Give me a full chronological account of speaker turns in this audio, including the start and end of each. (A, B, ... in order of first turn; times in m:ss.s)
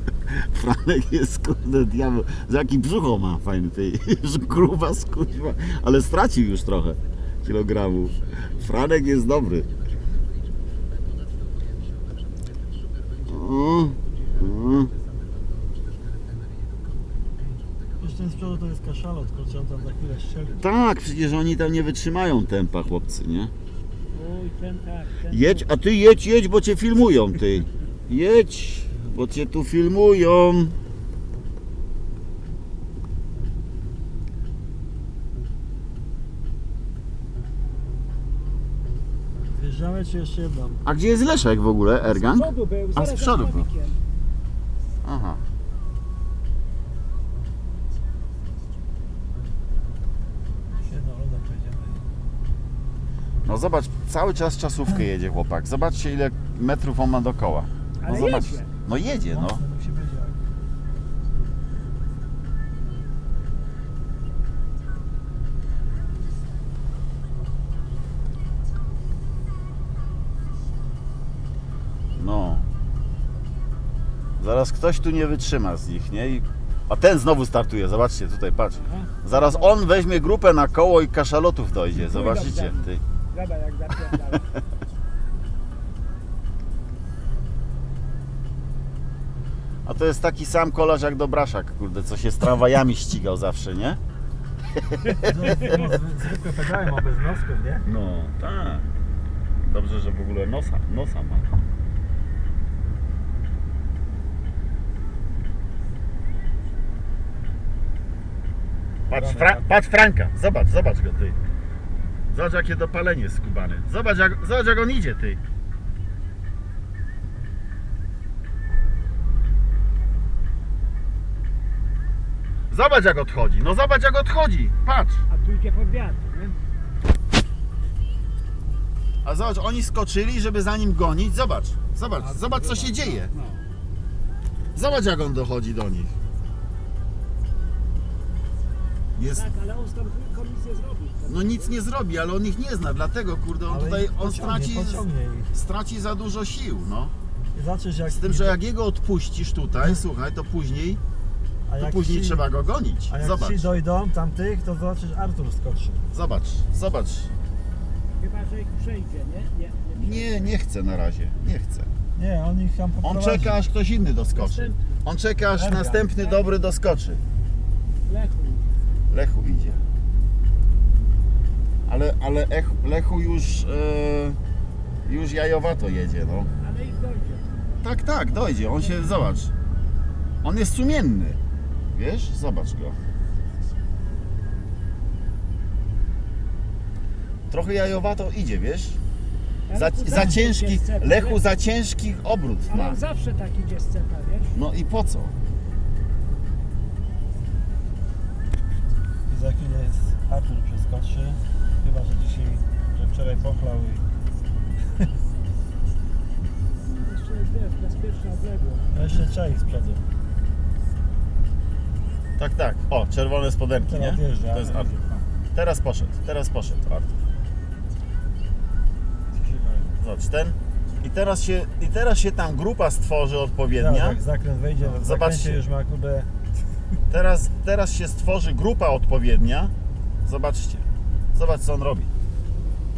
0:00.3-0:09.7 A
0:13.2-0:14.9 A
0:18.0-0:20.7 B
0:20.6-0:23.5 A
0:24.1-0:25.7 C
0:25.3-0:30.8 A
0:39.5-0:40.8 B
0:40.8-0:43.7 A
0:42.1-0:44.0 C
0:45.0-0:45.4 A
0:50.8-0:52.0 B
0:53.4-0:59.6 A
0:58.0-0:58.7 C
0:59.1-1:00.4 B
1:12.1-1:12.7 A
1:14.4-1:23.0 A
1:18.7-1:19.8 C
1:22.0-1:24.5 C
1:29.8-1:34.0 A
1:34.8-1:35.9 A
1:35.2-1:37.8 B
1:37.8-1:38.8 A
1:39.6-1:41.4 A
1:49.1-1:51.4 A
1:49.1-1:49.6 B
1:52.3-1:55.4 A
2:02.7-2:05.2 A
2:05.3-2:06.6 C
2:09.2-2:13.3 A
2:12.7-2:13.1 C
2:14.7-2:16.2 A
2:19.2-2:19.4 A
2:19.2-2:21.8 C
2:21.3-2:27.1 A
2:23.7-2:25.5 B
2:27.5-2:28.5 B
2:28.1-2:31.0 A
2:31.7-2:32.4 B
2:31.8-2:33.7 A
2:33.1-2:36.0 B
2:36.1-2:37.3 A
2:38.2-2:40.5 C
2:39.9-2:41.9 A
2:42.1-2:43.6 B
2:43.0-2:47.2 A
2:44.3-2:44.8 C
2:45.5-2:46.1 B
2:46.2-2:46.6 C
2:48.0-2:48.7 C
2:49.1-2:49.8 A
2:51.9-2:54.4 A
2:55.0-2:56.5 A
2:56.6-2:57.8 C
2:57.8-2:59.5 A
2:58.6-2:59.0 C
3:00.4-3:01.4 A
3:01.9-3:03.0 A
3:07.5-3:09.0 A
3:09.7-3:11.4 C
3:09.7-3:13.0 A
3:12.7-3:14.6 C
3:14.5-3:15.3 A
3:19.3-3:24.0 B
3:26.8-3:29.0 C
3:28.9-3:30.0 B
3:32.4-3:34.9 A
3:33.9-3:35.2 B
3:35.5-3:37.1 A
3:39.3-3:40.0 B
3:40.0-3:44.2 A
3:43.7-3:46.3 B
3:44.8-3:45.6 A
3:47.1-3:49.7 A
3:50.2-3:52.1 A